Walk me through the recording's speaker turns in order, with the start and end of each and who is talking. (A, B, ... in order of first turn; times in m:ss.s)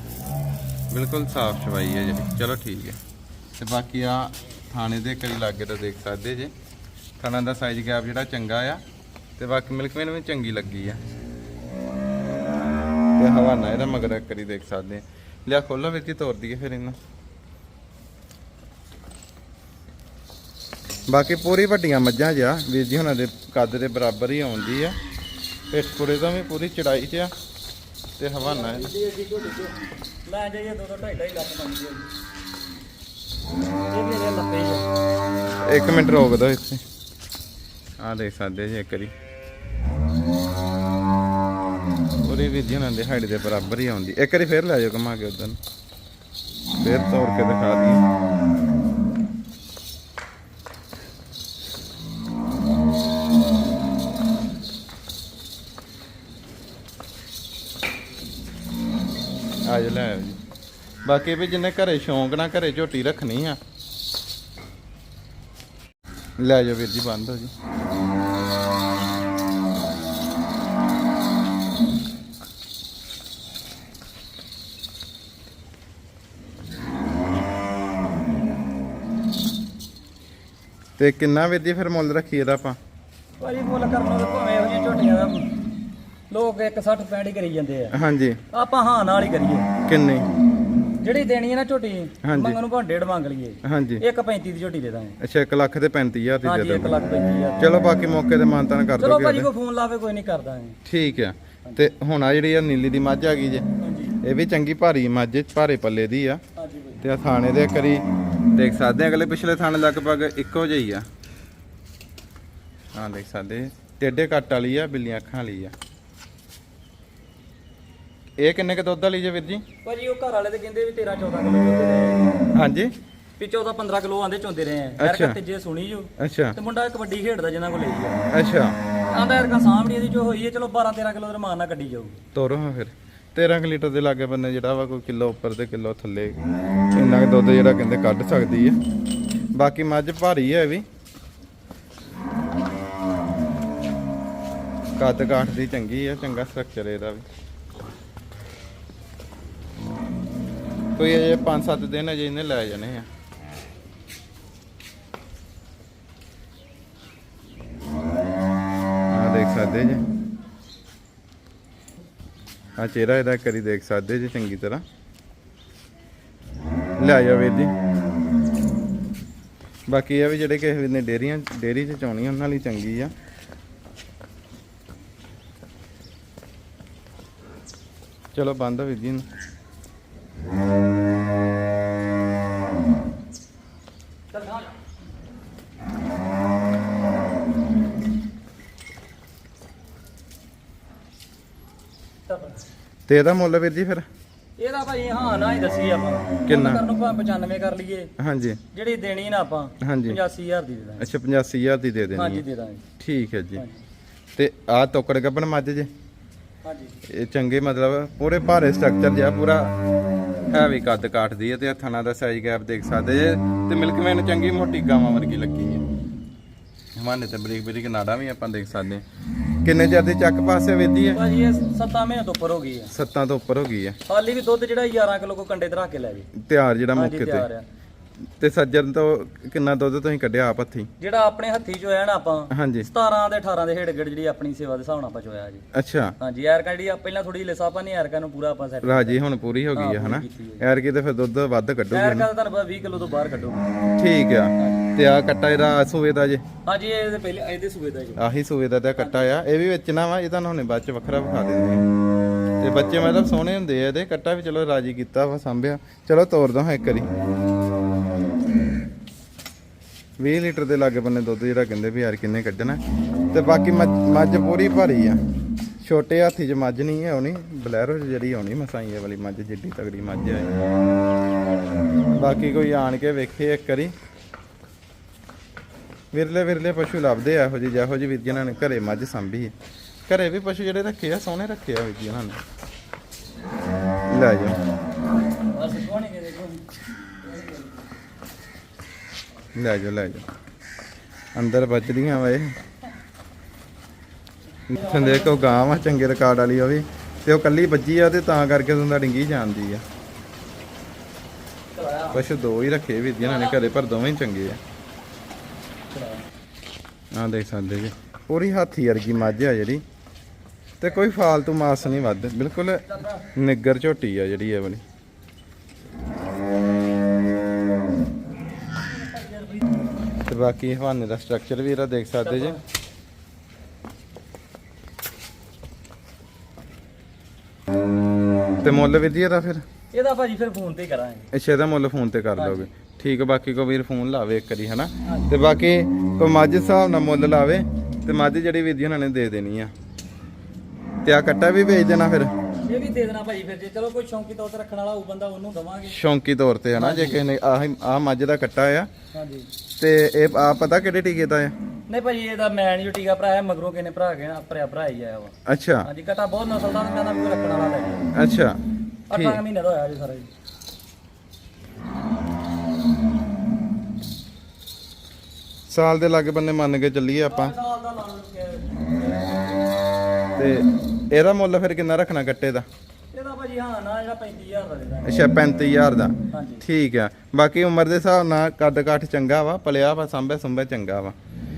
0:00.9-0:03.0 A
0:03.6-0:06.5 A
0:07.2-0:08.8 A
0:09.4-0:11.0 A
0:13.2-0:17.0 A
0:21.1-0:25.0 A
0:25.7-0:27.3 A
0:28.2-0:28.9 A
0:28.4-0:32.1 B
0:33.9-0:34.9 B
0:35.6-0:36.8 A
0:38.0-0:39.1 A
0:42.2-0:45.6 A
0:46.8-0:48.0 A
0:59.6-1:00.4 A
1:01.0-1:03.6 A
1:06.4-1:07.5 A
1:21.0-1:22.8 A
1:23.4-1:25.5 B
1:26.3-1:27.9 B
1:27.9-1:28.4 A
1:28.5-1:29.7 B
1:29.8-1:30.3 A
1:31.0-1:35.2 B
1:32.2-1:32.6 A
1:33.6-1:34.0 A
1:35.2-1:37.0 A
1:36.4-1:37.7 B
1:37.6-1:39.5 A
1:39.0-1:40.8 B
1:40.8-1:43.6 A
1:43.8-1:44.2 B
1:44.2-1:46.4 A
1:46.6-1:47.0 B
1:47.0-1:51.0 A
1:52.9-1:55.7 A
1:58.4-1:59.6 A
1:59.8-2:02.3 B
2:02.5-2:02.9 A
2:03.4-2:08.3 B
2:05.0-2:05.4 A
2:06.2-2:06.6 A
2:08.3-2:08.8 A
2:09.1-2:12.2 B
2:12.3-2:16.4 A
2:16.9-2:18.8 A
2:19.5-2:20.8 A
2:25.0-2:27.2 A
2:31.0-2:33.1 A
2:39.1-2:40.0 A
2:42.8-2:44.8 A
2:47.0-2:47.7 A
2:49.9-2:53.1 A
2:58.3-2:59.2 A
3:04.3-3:04.8 B
3:12.3-3:12.6 B
3:13.1-3:14.0 A
3:14.6-3:18.1 B
3:16.5-3:16.8 A
3:18.2-3:18.6 A
3:18.7-3:21.1 B
3:19.8-3:20.2 A
3:21.0-3:22.4 A
3:22.1-3:22.8 B
3:23.0-3:23.6 A
3:23.6-3:23.8 B
3:24.4-3:25.9 A
3:26.6-3:27.0 B
3:27.1-3:29.7 A
3:30.5-3:35.8 A
3:36.9-3:39.0 A
3:39.6-3:41.2 A
3:41.1-3:42.9 B
3:42.9-3:44.0 A
3:44.1-3:46.3 B
3:46.3-3:47.5 A
3:46.9-3:47.6 B
3:48.4-3:50.9 A
3:51.0-3:55.6 B
3:52.5-3:52.9 A
3:55.7-3:56.2 A
3:56.2-3:59.2 B
3:58.8-4:02.3 A
3:59.7-4:00.6 B
4:01.9-4:03.7 B
4:03.9-4:06.4 A
4:04.6-4:04.9 B
4:06.6-4:08.2 B
4:08.2-4:11.8 A
4:09.0-4:09.3 B
4:12.6-4:17.1 A
4:20.2-4:22.8 A
4:23.3-4:25.2 A
4:25.8-4:30.5 A
4:32.1-4:33.9 A
4:36.1-4:39.5 A
4:40.1-4:42.4 A
4:44.1-4:44.6 A
4:45.5-4:46.6 B
4:47.2-4:47.8 B
4:49.5-4:50.2 A
4:51.3-4:52.6 A
4:54.7-4:59.8 A
4:54.7-4:55.5 B
5:01.7-5:02.2 B
5:02.1-5:04.6 A
5:03.2-5:03.7 B
5:05.9-5:06.2 B
5:07.1-5:09.8 A
5:10.8-5:14.8 A
5:12.9-5:13.2 B
5:18.8-5:19.7 B
5:20.2-5:22.6 A
5:22.2-5:22.6 B
5:28.6-5:29.6 A
5:29.9-5:31.3 B
5:31.3-5:39.7 A
5:32.4-5:32.7 B
5:35.0-5:35.3 B
5:41.0-5:42.3 A
5:42.6-5:46.0 B
5:45.9-5:48.9 A
5:46.7-5:47.2 B
5:49.1-5:49.5 B
5:49.8-5:51.5 A
5:51.9-5:55.3 B
5:55.5-5:55.9 A
5:55.8-5:58.1 B
5:58.1-5:58.6 A
5:59.1-6:00.3 B
5:59.1-5:59.4 A
6:05.7-6:07.6 A
6:07.3-6:09.5 B
6:10.4-6:12.6 A
6:13.1-6:15.2 B
6:15.0-6:21.1 A
6:16.3-6:16.6 B